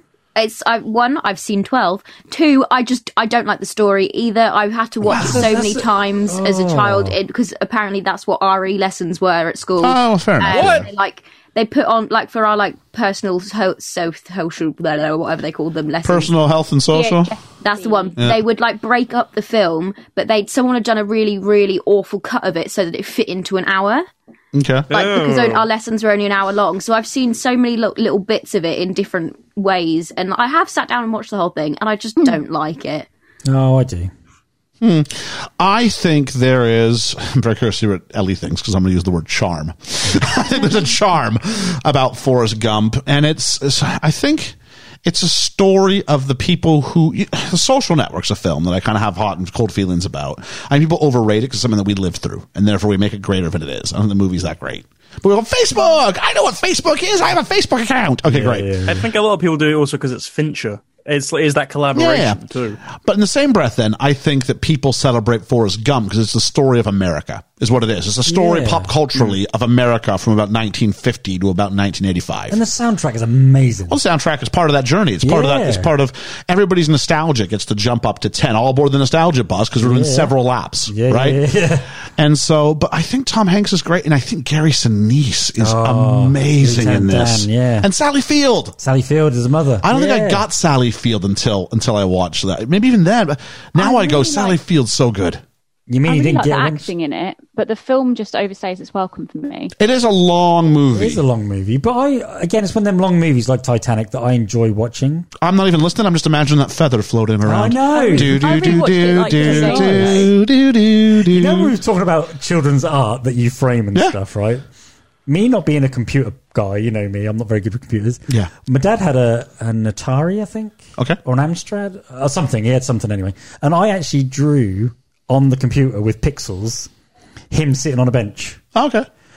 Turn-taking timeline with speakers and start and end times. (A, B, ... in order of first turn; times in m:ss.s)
0:00.4-0:16.3 A
0:05.0-0:05.6 B
0:05.1-0:07.2 C
0:09.8-0:10.9 B
0:10.5-0:10.9 D
0:16.0-0:17.4 B
0:16.9-0:18.2 E
0:17.6-0:24.1 A
0:18.2-0:18.4 B
0:24.5-0:24.9 B
0:24.9-0:25.7 D
0:24.9-0:33.1 A
0:33.4-0:34.1 C
0:34.8-0:58.7 B
0:58.3-0:59.0 C
0:58.9-1:02.8 D
1:01.9-1:02.4 B
1:02.9-1:12.6 B
1:08.3-1:08.9 C
1:12.5-1:14.0 C
1:13.9-1:21.4 B
1:15.2-1:15.9 C
1:19.8-1:20.3 C
1:20.9-1:21.9 C
1:22.2-1:28.8 B
1:25.6-1:27.9 C
1:28.8-1:30.4 C
1:29.8-1:35.4 B
1:33.8-1:34.6 E
1:35.9-1:36.9 C
1:36.1-1:39.7 E
1:39.8-1:41.2 B
1:40.9-1:45.3 C
1:45.4-1:51.7 B
1:47.4-1:48.7 C
1:47.8-1:50.3 E
1:49.4-1:50.3 C
1:51.3-1:54.6 C
1:55.3-2:06.9 C
2:07.5-2:08.6 C
2:08.8-2:09.1 B